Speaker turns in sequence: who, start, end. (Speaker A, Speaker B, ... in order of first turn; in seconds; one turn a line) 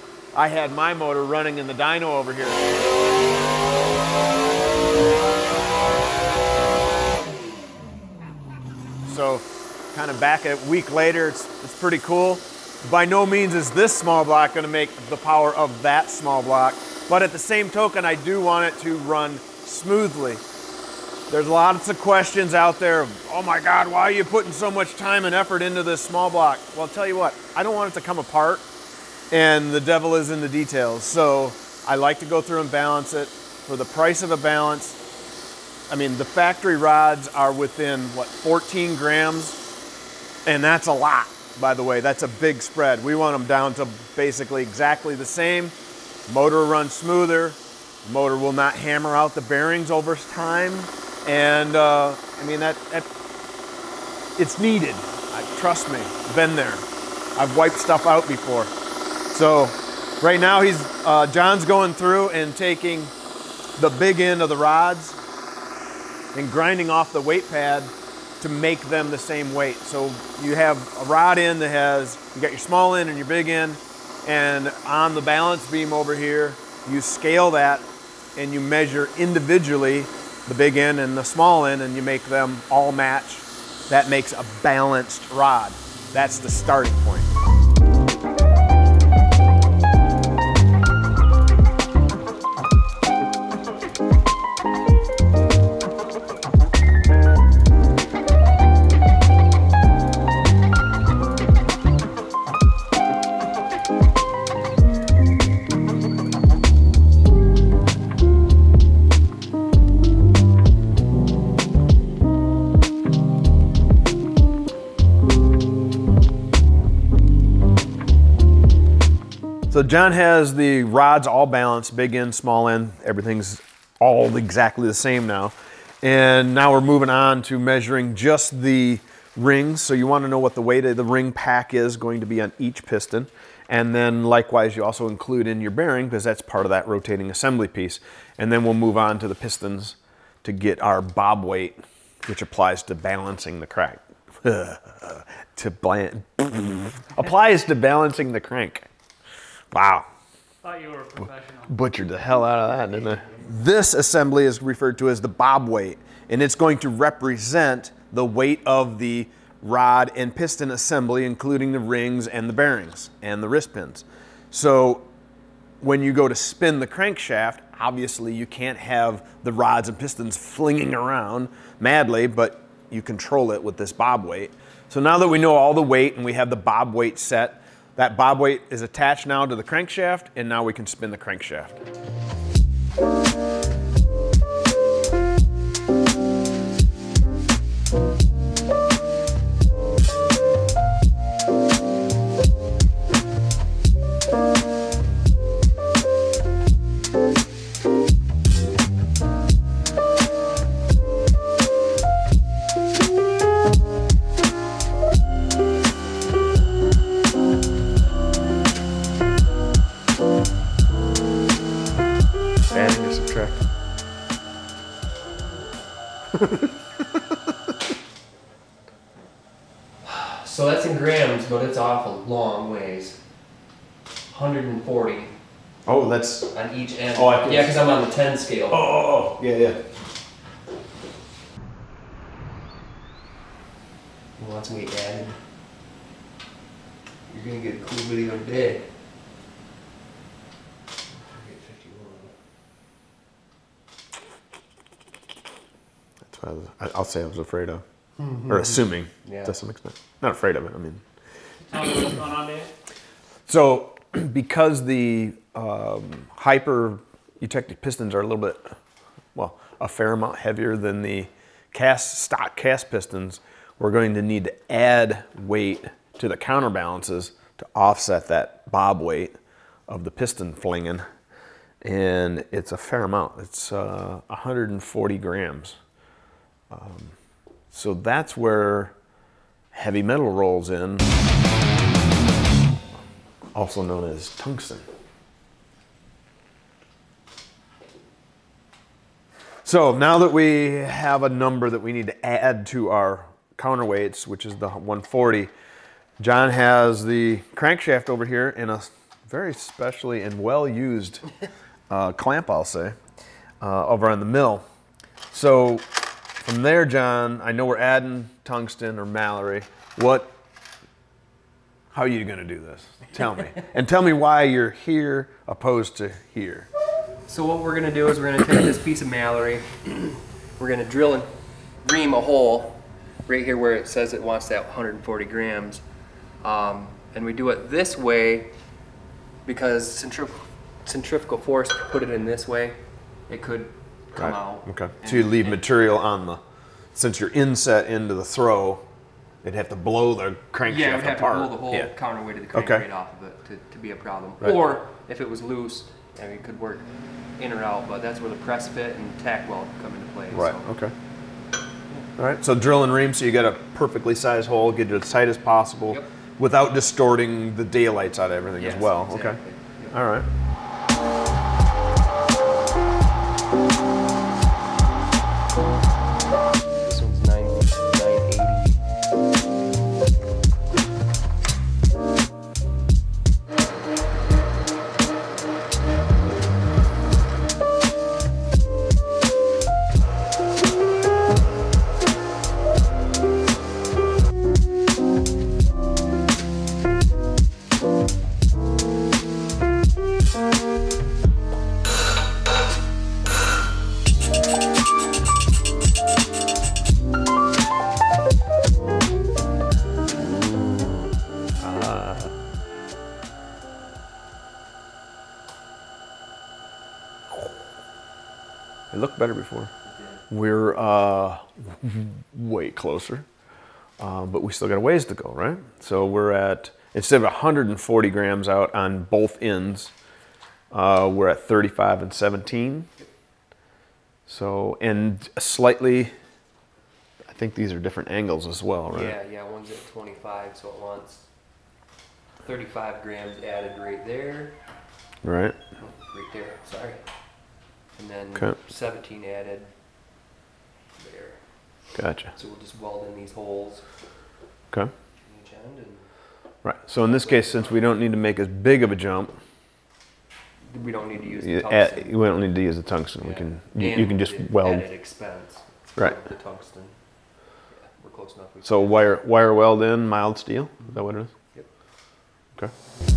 Speaker A: 0.3-2.6
Speaker A: 9.0-20.4
Speaker A: 21.3-28.6
Speaker A: 29.3-35.0
Speaker A: 35.9-39.6
Speaker A: 40.5-45.7
Speaker A: 46.3-53.1
Speaker A: 54.4-58.7
Speaker A: 59.3-63.1
Speaker A: 63.8-65.2
Speaker A: 66.3-87.3
Speaker A: 119.7-148.8
Speaker A: 149.7-150.1
Speaker B: 150.6-151.7
Speaker A: 151.7-165.1
Speaker A: 165.8-181.8
Speaker A: 212.7-213.6
Speaker C: 220.0-223.2
Speaker C: 224.3-225.3
Speaker A: 225.8-226.5
Speaker C: 226.5-228.8
Speaker A: 227.1-227.8
Speaker A: 228.7-229.8
Speaker C: 234.4-235.4
Speaker C: 237.3-238.9
Speaker C: 241.1-242.3
Speaker A: 246.3-247.8
Speaker C: 248.2-249.6
Speaker A: 248.4-251.0
Speaker B: 251.7-252.7
Speaker A: 253.5-258.8
Speaker A: 259.3-269.3
Speaker A: 269.9-271.0
Speaker A: 271.8-275.8
Speaker A: 276.7-277.1
Speaker A: 277.7-278.9
Speaker A: 279.7-281.1
Speaker A: 283.5-284.9
Speaker A: 289.6-295.5
Speaker A: 296.2-301.2
Speaker A: 301.9-302.9
Speaker A: 303.6-304.6
Speaker A: 305.3-305.8
Speaker A: 306.4-310.3
Speaker A: 311.9-316.7
Speaker C: 317.3-321.3
Speaker C: 321.8-325.8
Speaker C: 326.4-328.5
Speaker C: 329.4-332.7
Speaker C: 333.3-335.6
Speaker A: 334.1-336.4
Speaker A: 336.9-338.8
Speaker A: 339.4-341.9
Speaker C: 340.6-350.7
Speaker A: 342.5-342.9
Speaker A: 350.3-350.9
Speaker A: 352.2-359.4
Speaker C: 358.6-360.0
Speaker A: 359.9-360.3
Speaker C: 366.8-368.8
Speaker A: 400.2-401.0
Speaker A: 401.6-402.3
Speaker A: 408.9-409.7
Speaker C: 409.9-410.2
Speaker A: 410.3-413.2
Speaker A: 414.0-419.9
Speaker A: 420.7-422.9
Speaker A: 424.3-426.1
Speaker A: 427.3-429.1
Speaker C: 428.9-431.3
Speaker C: 432.4-434.6
Speaker A: 435.2-435.6
Speaker C: 435.8-437.0
Speaker C: 437.9-439.7
Speaker C: 441.0-443.9
Speaker A: 441.9-442.3
Speaker C: 445.2-446.1
Speaker A: 446.6-449.3
Speaker C: 447.0-448.0
Speaker C: 450.7-452.2
Speaker A: 451.2-454.9
Speaker C: 453.2-457.0
Speaker C: 457.6-459.1
Speaker A: 458.6-461.3